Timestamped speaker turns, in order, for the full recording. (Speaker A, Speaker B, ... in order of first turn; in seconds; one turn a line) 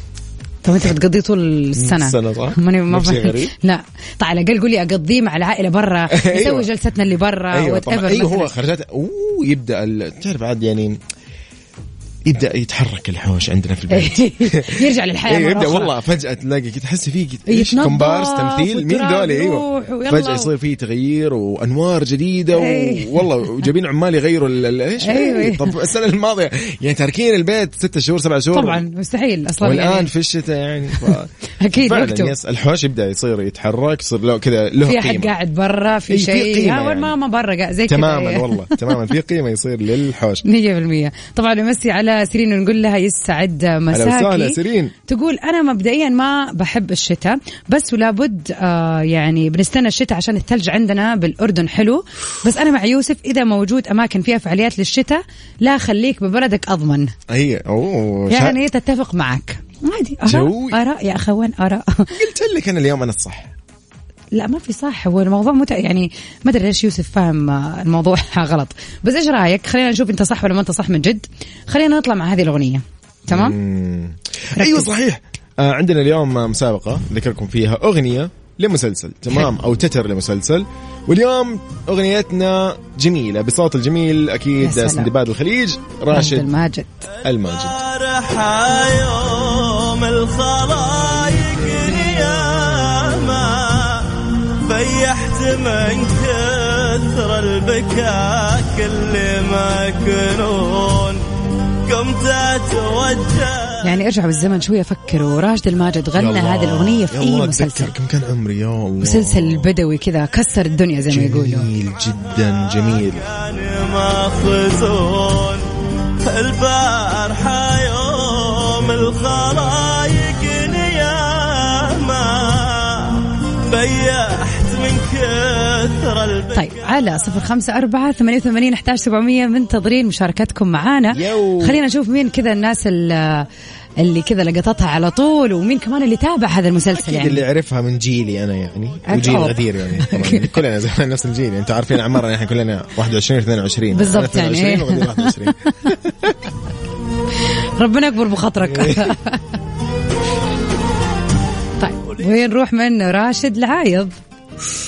Speaker A: 0.6-8.5
Speaker B: 1.8-3.5
Speaker B: 6.1-6.7
Speaker B: 7.5-11.0
Speaker B: 12.2-28.8
Speaker A: 13.9-15.9
Speaker A: 17.5-20.5
Speaker A: 22.5-23.2
Speaker A: 25.0-25.7
Speaker A: 28.5-30.1
Speaker B: 29.6-35.3
Speaker A: 31.0-32.3
Speaker A: 34.8-39.0
Speaker B: 36.1-37.1
Speaker B: 37.9-40.4
Speaker A: 40.4-57.1
Speaker B: 43.9-44.9
Speaker B: 57.3-58.6
Speaker A: 58.3-62.1
Speaker B: 60.2-60.8
Speaker B: 62.1-63.5
Speaker A: 64.3-73.6
Speaker B: 73.3-86.5
Speaker A: 74.5-74.9
Speaker A: 84.6-85.1
Speaker A: 86.1-87.0
Speaker B: 87.2-87.8
Speaker C: 87.2-101.2
Speaker C: 101.8-103.8
Speaker A: 103.8-107.9
Speaker B: 106.1-109.7
Speaker A: 109.0-111.7
Speaker B: 111.1-113.2
Speaker C: 112.6-115.7
Speaker C: 116.2-127.0
Speaker A: 126.5-133.5
Speaker B: 131.1-131.8
Speaker A: 134.0-137.4
Speaker B: 136.9-146.3
Speaker A: 139.1-140.5
Speaker A: 143.9-145.9
Speaker A: 147.5-149.5
Speaker B: 148.7-149.1
Speaker A: 151.8-154.2